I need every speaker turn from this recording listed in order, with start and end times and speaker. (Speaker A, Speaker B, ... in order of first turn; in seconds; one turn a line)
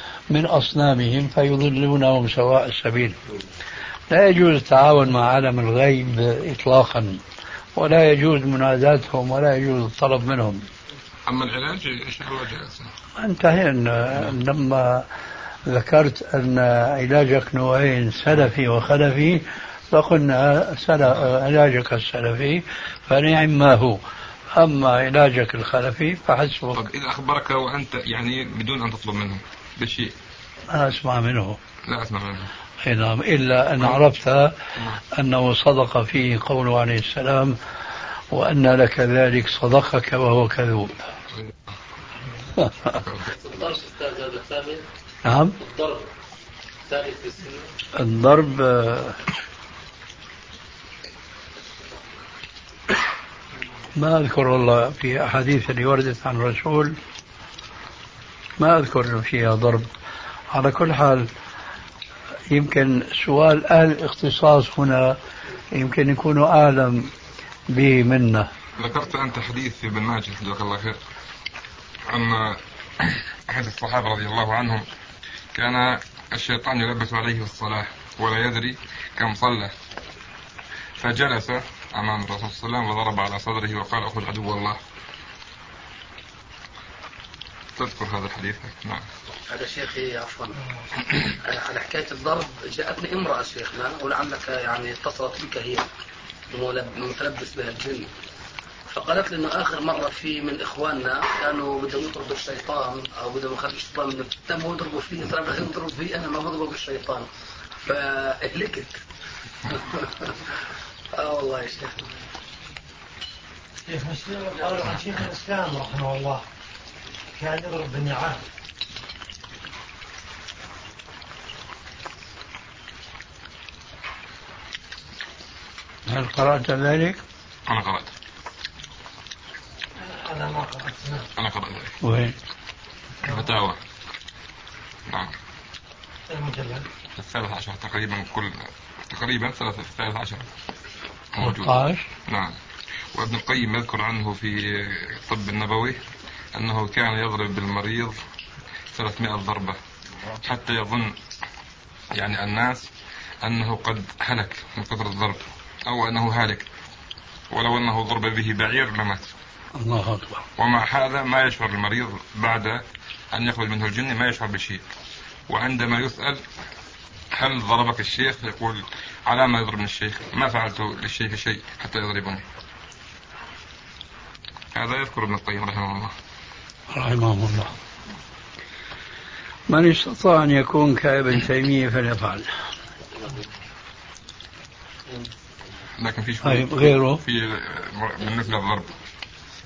Speaker A: 0.3-3.2
Speaker A: 4.1-7.2
Speaker A: 7.8-10.7
Speaker B: 11.3-12.9
Speaker A: 13.2-15.1
Speaker A: 15.7-24.0
Speaker A: 24.6-26.8
Speaker B: 26.7-30.1
Speaker A: 30.7-31.6
Speaker B: 31.9-32.5
Speaker A: 32.8-34.5
Speaker A: 35.1-37.6
Speaker A: 38.3-41.0
Speaker A: 42.6-43.0
Speaker B: 42.9-43.3
Speaker C: 43.2-44.8
Speaker A: 45.2-45.5
Speaker C: 45.6-46.1
Speaker C: 46.9-47.7
Speaker A: 48.0-49.2
Speaker A: 54.0-57.0
Speaker A: 58.6-59.9
Speaker A: 60.5-61.3
Speaker A: 62.5-65.2
Speaker A: 65.7-67.1
Speaker A: 67.7-68.5
Speaker B: 68.8-71.0
Speaker B: 72.1-74.9
Speaker B: 75.5-79.7
Speaker B: 81.0-84.8
Speaker B: 87.8-89.1
Speaker D: 89.5-90.5
Speaker D: 91.5-95.9
Speaker D: 96.5-98.1
Speaker D: 98.9-107.3
Speaker D: 107.9-109.0
Speaker D: 109.8-110.3
Speaker D: 111.2-112.0
Speaker E: 113.9-116.4
Speaker E: 117.4-118.4
Speaker A: 126.1-127.2
Speaker B: 127.7-128.1
Speaker E: 130.0-131.3
Speaker B: 131.4-131.9
Speaker A: 132.0-132.3
Speaker B: 133.3-133.8
Speaker B: 135.1-135.3
Speaker E: 136.3-136.8
Speaker B: 137.2-140.5
Speaker B: 141.3-142.6
Speaker A: 141.4-142.1
Speaker B: 143.1-146.0
Speaker B: 146.5-148.2
Speaker B: 148.9-149.8
Speaker B: 150.4-151.2
Speaker B: 152.1-152.9
Speaker B: 153.4-156.7
Speaker B: 157.5-159.3
Speaker A: 159.8-160.5
Speaker B: 160.6-164.8
Speaker B: 165.5-166.4
Speaker B: 167.3-172.4
Speaker B: 174.7-176.1
Speaker A: 176.9-177.7
Speaker A: 179.7-182.5
Speaker B: 186.0-188.9
Speaker A: 186.4-187.2